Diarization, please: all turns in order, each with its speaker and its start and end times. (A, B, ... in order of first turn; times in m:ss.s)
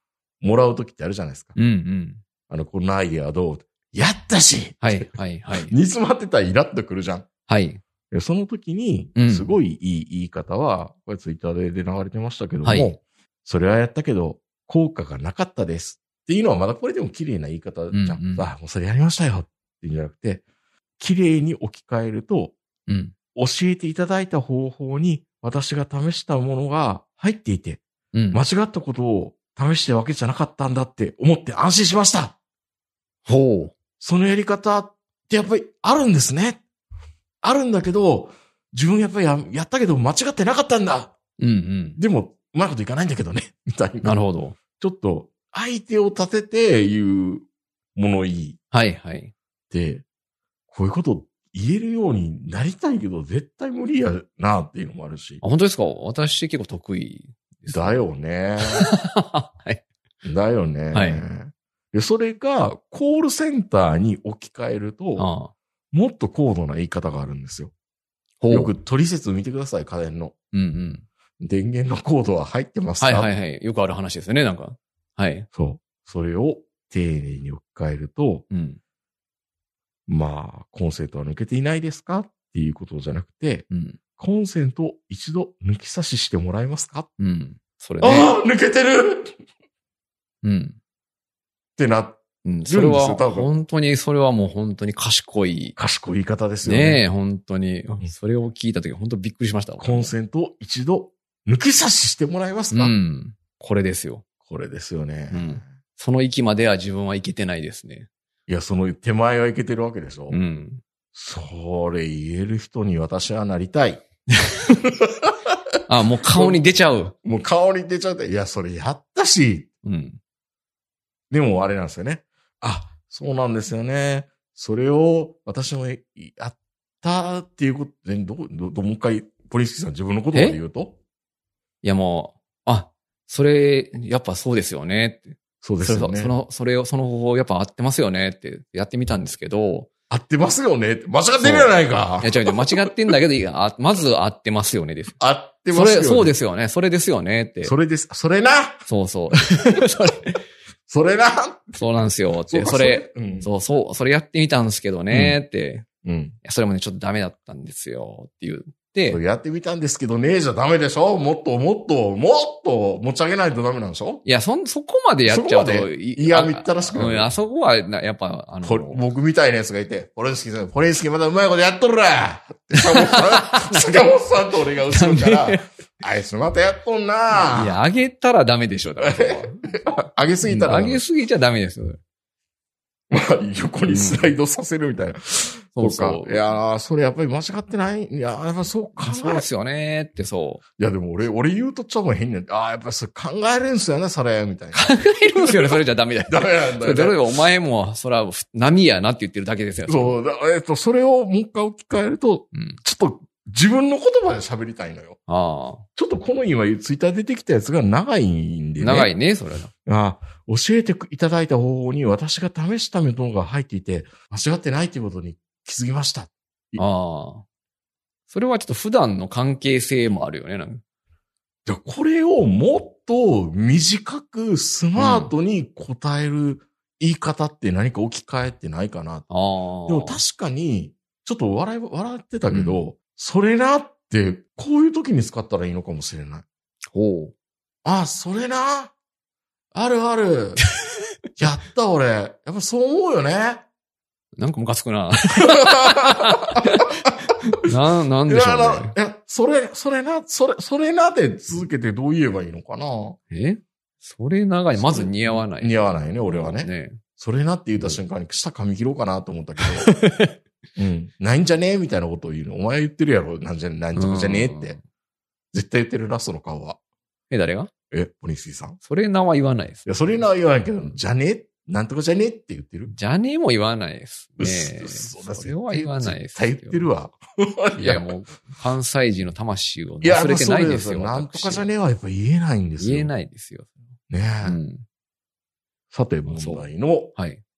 0:00.4-0:01.6 A
0:01.6-0:02.2 B
0:02.5-0:05.1 A
0:04.8-0:05.8 B
0:05.7-0:07.3 A
0:07.5-0:07.8 B
0:08.1-0:20.4 A
0:09.2-0:09.6 B
0:12.6-0:12.9 B
0:17.9-0:18.5 B
0:21.0-0:22.6 A
0:22.9-0:23.1 B
0:23.4-0:32.4 A
0:28.1-0:28.4 B
0:33.3-0:33.8 B
0:34.0-0:36.6 A
0:37.4-0:41.1 A
0:41.4-0:42.0 B
0:42.0-0:44.2 A
0:44.0-0:44.6 B
0:44.8-0:47.4 A
0:48.0-0:48.6 A
0:48.7-0:49.3 B
0:49.7-0:50.0 A
0:50.7-0:55.4 A
0:55.4-0:58.0 B
0:57.7-0:58.9 A
0:58.6-0:59.8 B
1:00.2-1:05.3 A
1:00.9-1:01.2 B
1:05.2-1:05.5 B
1:05.9-1:07.7 A
1:08.4-1:08.8 B
1:08.5-1:10.4 A
1:10.5-1:11.1 B
1:11.4-1:13.3 A
1:13.0-1:15.5 B
1:15.5-1:18.5 A
1:18.5-1:18.8 B
1:20.1-1:27.1 A
1:23.7-1:24.0 B
1:27.2-1:28.3 B
1:28.0-1:29.3 A
1:30.4-1:30.8 B
1:31.8-1:33.5 A
1:32.4-1:35.8 B
1:35.8-1:37.0 A
1:36.6-1:40.1 B
1:39.8-1:42.9 A
1:42.7-1:44.2 B
1:44.5-1:45.7 A
1:45.3-1:48.1 B
1:48.5-1:50.4 A
1:50.3-1:50.8 B
1:51.1-1:54.0 A
1:55.2-1:55.5 A
1:55.9-1:57.2 B
1:56.3-1:56.6 A
1:57.2-1:59.7 A
1:59.8-2:00.2 B
2:01.3-2:11.0 A
2:10.3-2:10.6 B
2:11.8-2:19.9 B
2:15.6-2:16.3 A
2:20.1-2:22.9 A
2:21.4-2:25.2 B
2:25.2-2:26.3 A
2:25.7-2:27.7 B
2:27.6-2:28.8 A
2:28.9-2:30.4 B
2:30.9-2:31.8 A
2:31.8-2:35.9 B
2:32.5-2:33.5 A
2:35.1-2:35.4 A
2:36.0-2:36.4 A
2:36.4-2:39.2 B
2:39.1-2:44.2 A
2:44.2-2:49.0 B
2:45.3-2:47.3 A
2:48.6-2:57.8 A
2:52.8-2:54.1 B
2:54.9-2:55.6 B
2:57.3-2:59.7 B
2:59.0-3:01.0 A
3:00.4-3:02.0 B
3:03.1-3:09.5 A
3:03.9-3:04.3 B
3:05.8-3:06.6 B
3:09.0-3:10.6 B
3:10.8-3:17.2 A
3:14.7-3:20.2 B
3:19.9-3:25.2 A
3:22.5-3:22.8 B
3:25.3-3:25.9 B
3:26.0-3:29.1 A
3:28.8-3:29.7 B
3:29.9-3:36.8 A
3:36.8-3:37.4 B
3:38.3-3:40.8 B
3:41.7-3:49.3 A
3:45.0-3:45.3 B
3:49.3-3:50.2 B
3:49.9-3:56.4 A
3:52.5-3:52.8 B
3:56.9-3:57.3 B
3:57.8-3:58.9 A
3:59.7-4:00.6 A
4:01.4-4:03.6 A
4:04.4-4:09.0 B
4:05.4-4:07.1 A
4:08.3-4:13.2 A
4:13.3-4:17.0 B
4:14.8-4:20.0 A
4:19.6-4:20.4 B
4:20.8-4:24.8 A
4:24.0-4:24.8 B
4:25.5-4:26.8 A
4:27.3-4:27.7 B
4:27.9-4:28.8 A
4:28.8-4:30.3 B
4:29.9-4:32.9 A
4:32.9-4:36.9 B
4:34.4-4:38.1 A
4:37.8-4:41.7 B
4:40.0-4:43.1 A
4:42.8-4:43.8 B
4:44.1-4:44.6 A
4:44.4-4:44.8 B
4:45.9-4:47.1 A
4:46.3-4:47.4 B